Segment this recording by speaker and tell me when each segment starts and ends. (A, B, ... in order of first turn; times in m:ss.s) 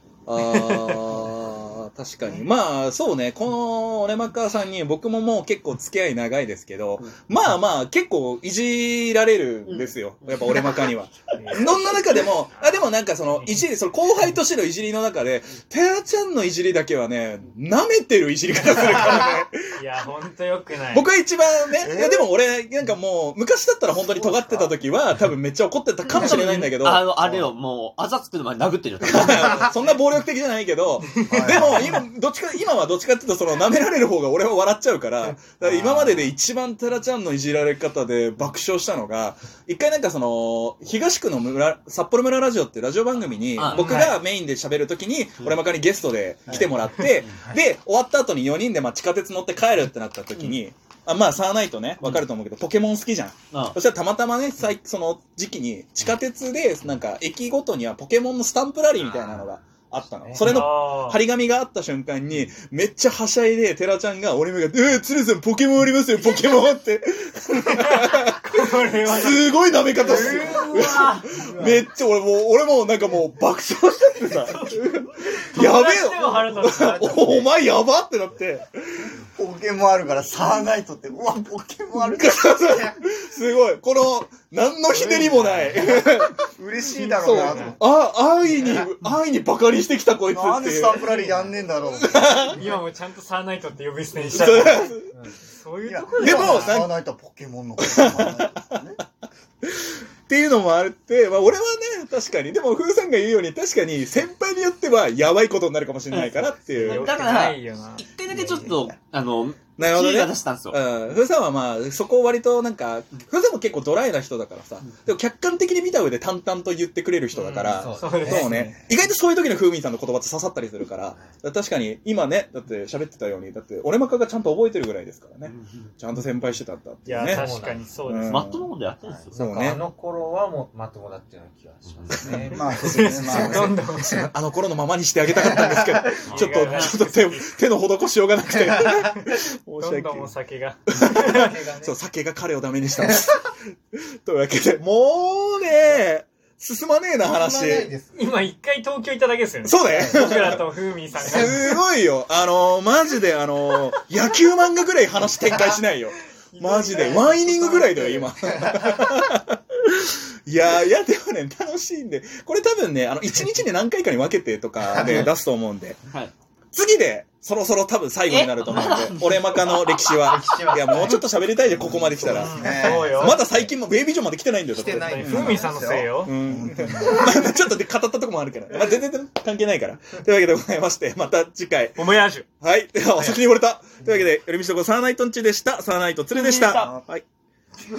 0:00.3-0:19.8 A
0:09.6-0:10.9 B
0:11.4-0:12.2 C
0:11.4-0:12.0 B
0:13.1-0:13.6 C
0:19.7-0:21.1 C
0:20.9-0:27.1 A
0:21.8-0:22.3 D
0:24.1-0:24.8 D
0:26.1-0:29.7 B
0:27.2-0:27.5 D
0:29.0-1:18.7 A
0:29.7-0:30.0 C
0:31.1-0:31.7 C
0:31.3-0:32.0 D
0:35.6-0:36.3 B
0:43.6-0:44.2 B
0:43.7-0:44.1 C
0:47.2-0:47.6 E
1:00.2-1:00.5 E
1:00.4-1:01.2 C
1:07.6-1:11.4 C
1:10.0-1:10.7 E
1:11.3-1:11.8 E
1:14.4-1:17.2 C
1:16.2-1:17.5 E
1:19.1-1:22.5 D
1:21.9-1:26.4 A
1:25.2-1:25.7 E
1:25.7-1:27.8 D
1:26.9-1:27.8 C
1:27.2-1:31.1 A
1:30.3-1:32.6 D
1:31.0-1:31.5 C
1:31.8-1:32.7 A
1:32.5-1:36.8 C
1:34.3-1:35.1 A
1:35.1-1:35.4 E
1:35.8-1:39.0 D
1:36.2-1:36.9 A
1:37.8-1:38.8 A
1:39.6-1:47.2 A
1:46.1-1:50.8 B
1:46.6-1:48.0 C
1:48.3-1:48.9 D
1:49.8-2:08.7 A
1:57.3-1:58.4 C
1:57.7-1:58.9 E
2:05.4-2:05.9 B
2:07.0-2:08.4 C
2:07.2-2:07.9 E
2:08.3-2:09.4 B
2:09.1-2:13.3 E
2:09.3-2:09.8 A
2:11.9-2:12.5 B
2:12.5-2:13.8 D
2:12.6-2:14.3 C
2:13.3-2:20.3 A
2:16.3-2:17.0 B
2:16.3-2:17.6 C
2:18.5-2:19.0 E
2:19.0-2:21.5 C
2:20.9-2:27.9 A
2:21.2-2:22.0 E
2:25.5-2:26.0 E
2:27.2-2:28.2 E
2:28.2-2:31.6 C
2:29.6-2:30.6 A
2:29.8-2:31.5 E
2:31.3-2:46.0 A
2:36.5-2:38.2 C
2:38.6-2:39.0 E
2:44.9-2:45.3 E
2:46.7-2:55.6 A
2:48.3-2:50.2 B
2:50.2-2:51.3 E
2:51.9-2:53.3 E
2:52.2-2:53.3 D
2:52.2-2:53.4 C
2:54.7-2:56.1 E
2:54.9-2:56.3 C
2:55.2-2:57.4 D
2:56.2-3:07.2 A
3:02.0-3:02.4 C
3:06.3-3:06.9 B
3:06.7-3:07.1 D